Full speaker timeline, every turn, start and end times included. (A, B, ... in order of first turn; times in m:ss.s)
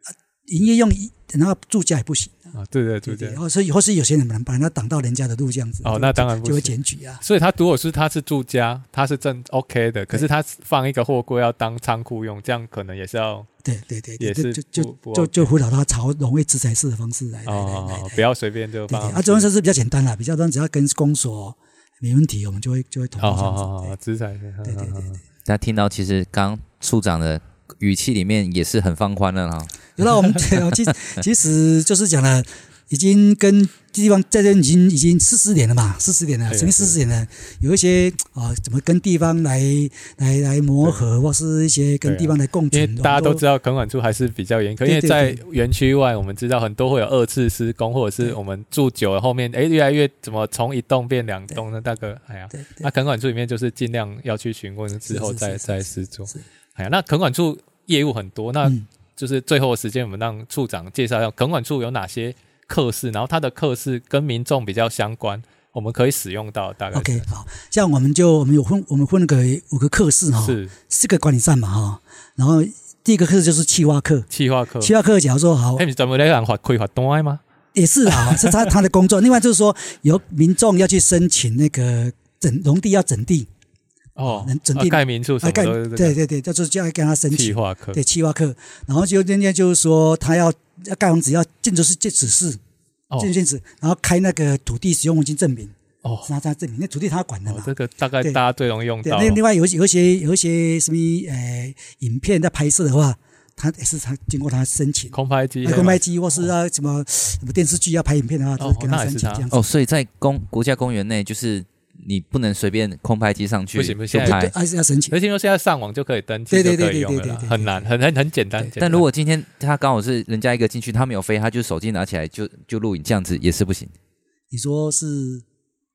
0:00.5-0:02.5 A
0:02.5-0:03.4 B
0:03.1-0:07.2 A
0:05.8-0:13.5 B
0:13.6-0:18.2 A
0:14.2-0:15.5 B
0:17.5-0:19.5 B
0:18.9-0:23.9 A
0:23.2-0:25.2 B
0:24.6-0:25.1 A
0:25.5-0:29.9 C
0:30.0-0:43.4 A
0:36.5-0:37.0 B
0:42.0-1:07.3 B
0:44.8-0:45.4 A
0:52.5-0:52.9 A
0:55.1-0:56.4 A
1:06.9-1:14.3 A
1:10.4-1:10.8 B
1:14.3-1:14.9 B
1:14.8-1:15.8 A
1:15.8-1:17.4 B
1:17.7-1:23.5 A
1:18.1-1:18.7 B
1:24.2-1:26.2 B
1:24.3-1:32.6 A
1:27.3-1:28.0 B
1:33.2-1:38.4 A
1:36.0-1:36.3 B
1:37.5-1:39.4 B
1:39.0-1:49.6 A
1:45.1-1:46.0 B
1:48.6-1:49.5 B
1:49.5-1:54.5 C
1:53.8-1:54.5 B
1:54.1-1:55.1 A
1:55.1-1:59.0 B
1:56.5-1:57.9 A
1:58.8-2:03.9 C
2:04.5-2:05.4 A